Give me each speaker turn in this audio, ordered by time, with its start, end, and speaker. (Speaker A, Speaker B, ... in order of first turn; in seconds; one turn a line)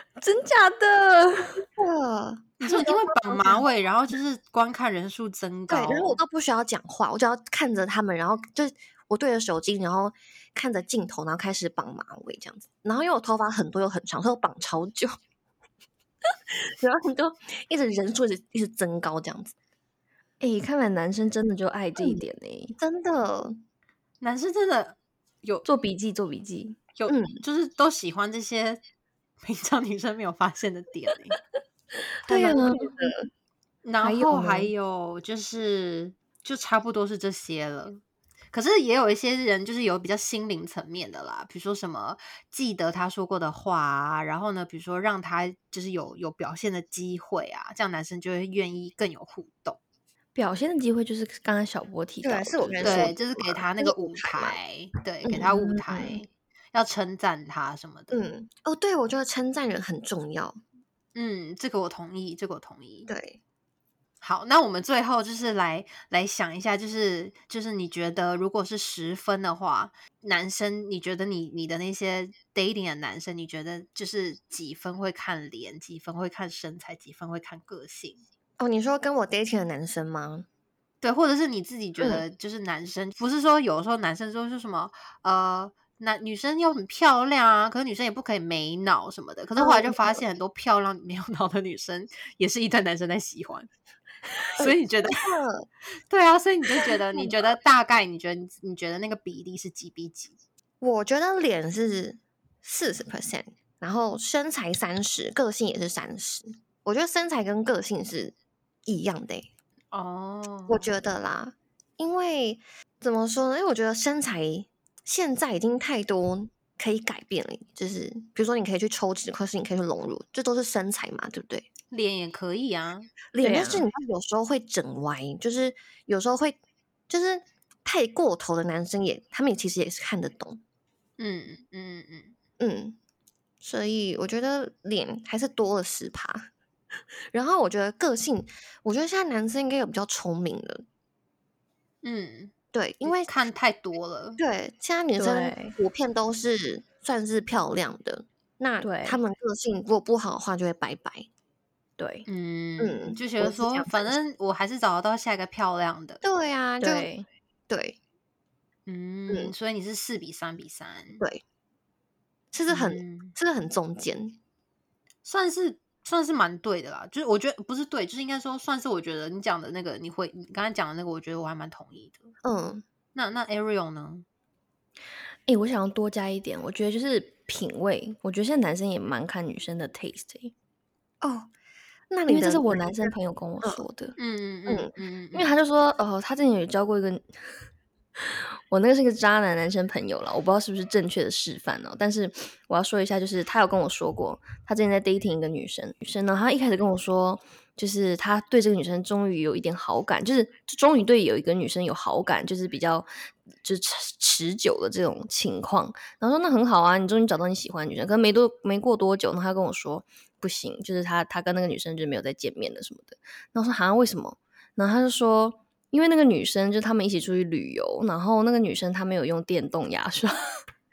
Speaker A: 0.2-1.6
Speaker B: 1.8-3.6
Speaker C: 2.6-6.2
Speaker B: 5.7-15.2
Speaker B: 16.5-19.5
Speaker A: 20.4-22.8
Speaker B: 22.0-22.2
Speaker B: 22.8-23.6
Speaker C: 24.2-25.6
Speaker A: 25.6-26.8
Speaker C: 27.0-28.8
Speaker B: 27.1-27.4
Speaker C: 29.4-31.4
Speaker A: 32.2-33.2
Speaker B: 32.3-33.2
Speaker C: 33.8-38.0
Speaker A: 34.0-34.7
Speaker C: 38.5-49.8
Speaker A: 50.3-53.1
Speaker B: 52.2-54.6
Speaker C: 52.8-58.2
Speaker B: 55.2-56.1
Speaker A: 55.5-55.8
Speaker B: 58.1-60.6
Speaker C: 61.1-63.1
Speaker B: 63.1-63.4
Speaker C: 64.2-78.2
Speaker B: 78.6-80.5
Speaker C: 81.0-93.7
Speaker B: 82.0-82.2
Speaker B: 89.6-90.2
Speaker C: 94.6-95.3
Speaker B: 94.6-95.7
Speaker C: 96.1-100.3
Speaker B: 96.8-97.4
Speaker B: 100.8-108.3
Speaker B: 108.8-109.5
Speaker C: 109.9-110.9
Speaker B: 110.7-121.7
Speaker C: 121.9-123.1
Speaker B: 123.3-126.6
Speaker A: 123.4-123.9
Speaker B: 127.1-130.6
Speaker C: 131.2-132.3
Speaker B: 132.6-133.0
Speaker B: 133.6-136.5
Speaker B: 137.3-140.8
Speaker C: 142.0-142.5
Speaker B: 142.7-143.3
Speaker C: 143.0-144.4
Speaker B: 144.4-151.3
Speaker A: 145.2-145.7
Speaker A: 148.8-149.2
Speaker A: 152.0-152.2
Speaker C: 152.2-156.2
Speaker B: 152.8-154.2
Speaker B: 156.2-157.1
Speaker A: 156.8-157.2
Speaker B: 157.7-158.0
Speaker C: 158.9-161.2
Speaker B: 162.5-164.4
Speaker C: 162.7-163.3
Speaker C: 165.2-172.3
Speaker B: 172.4-172.8
Speaker C: 173.1-174.2
Speaker A: 175.5-180.5
Speaker B: 181.2-181.5
Speaker B: 182.1-183.8
Speaker A: 182.3-184.1
Speaker C: 184.2-185.5
Speaker A: 185.3-187.4
Speaker A: 188.2-203.1
Speaker A: 203.6-220.4